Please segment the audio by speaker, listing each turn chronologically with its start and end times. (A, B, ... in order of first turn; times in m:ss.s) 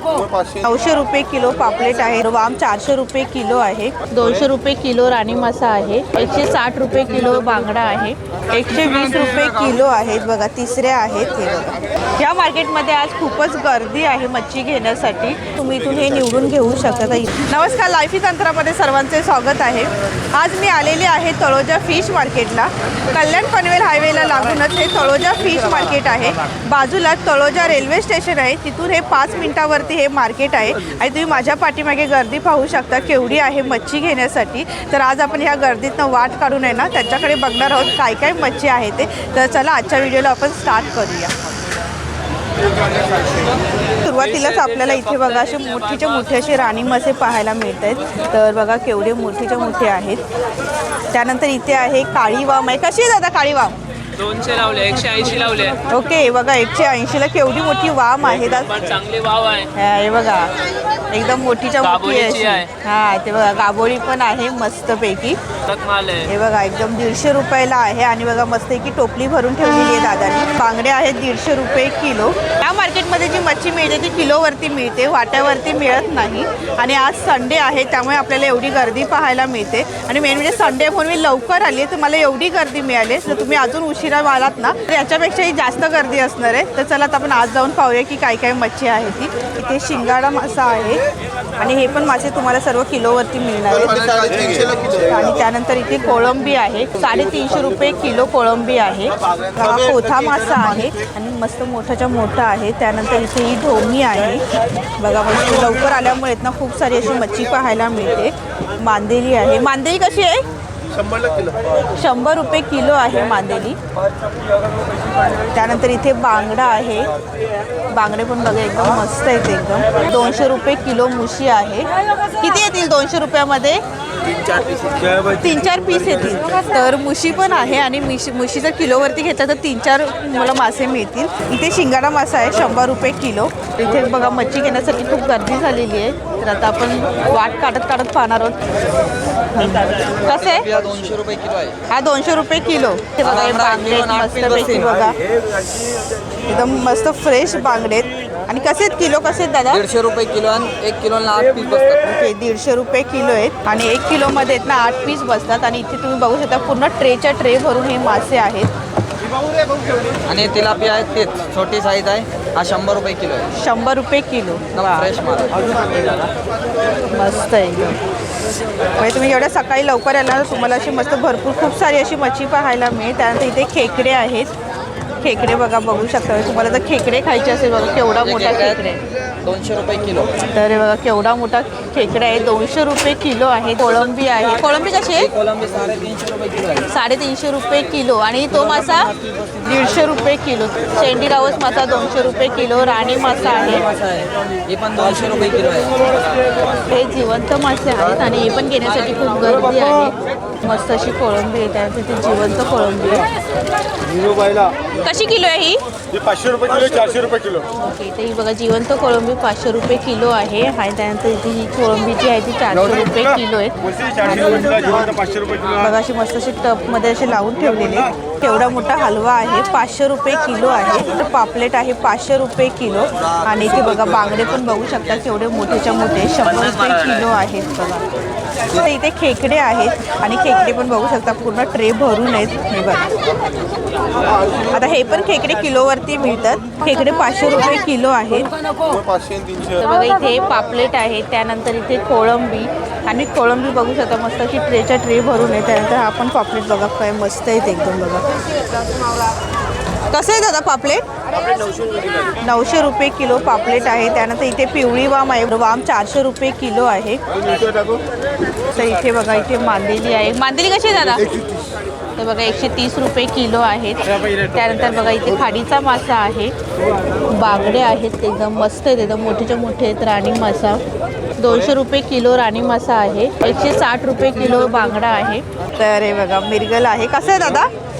0:00.5-0:41.3 A
0:44.0-0:50.2 A
0:51.1-0:53.8 A
0:54.2-0:55.8 B
0:55.8-0:59.0 A
0:59.0-0:59.7 B
0:59.7-1:00.5 A
1:01.1-1:05.4 A
1:02.1-1:02.7 B
1:05.7-1:06.2 B
1:06.2-1:31.0 A
1:31.6-1:44.5 A
1:45.0-1:50.4 A
1:51.0-1:51.5 C
1:52.0-1:53.8 A
1:55.5-1:57.1 A
1:57.9-2:03.8 A
2:04.7-2:05.1 C
2:05.2-2:18.6 A
2:19.5-2:20.7 A
2:20.2-2:21.8 D
2:21.9-2:25.2 A
2:23.2-2:25.1 D
2:26.4-2:29.8 A
2:29.7-2:32.0 D
2:32.0-2:38.7 A
2:40.3-2:43.5 D
2:43.5-2:45.1 A
2:44.7-2:46.2 D
2:47.1-2:48.0 A
2:49.0-2:54.5 A
2:55.2-2:59.0 A
2:58.2-2:58.8 D
2:59.4-3:00.4 D
3:00.5-3:05.3 A
3:05.1-3:06.9 D
3:06.9-3:13.8 A
3:09.0-3:09.6 D
3:13.5-3:16.1 D
3:16.9-3:23.2 A
3:25.0-3:25.8 A
3:26.1-3:27.6 C
3:27.7-3:48.0 A
3:34.7-3:35.6 C
3:48.7-3:53.1 A
3:54.5-3:58.5 A
3:58.9-3:59.6 C
3:59.8-4:08.2 A
4:10.1-4:11.0 A
4:11.8-4:12.0 C
4:12.4-4:17.2 A
4:17.4-4:18.0 C
4:18.7-4:21.4 A
4:22.2-4:26.5 A
4:27.3-4:30.8 A
4:31.4-4:37.7 A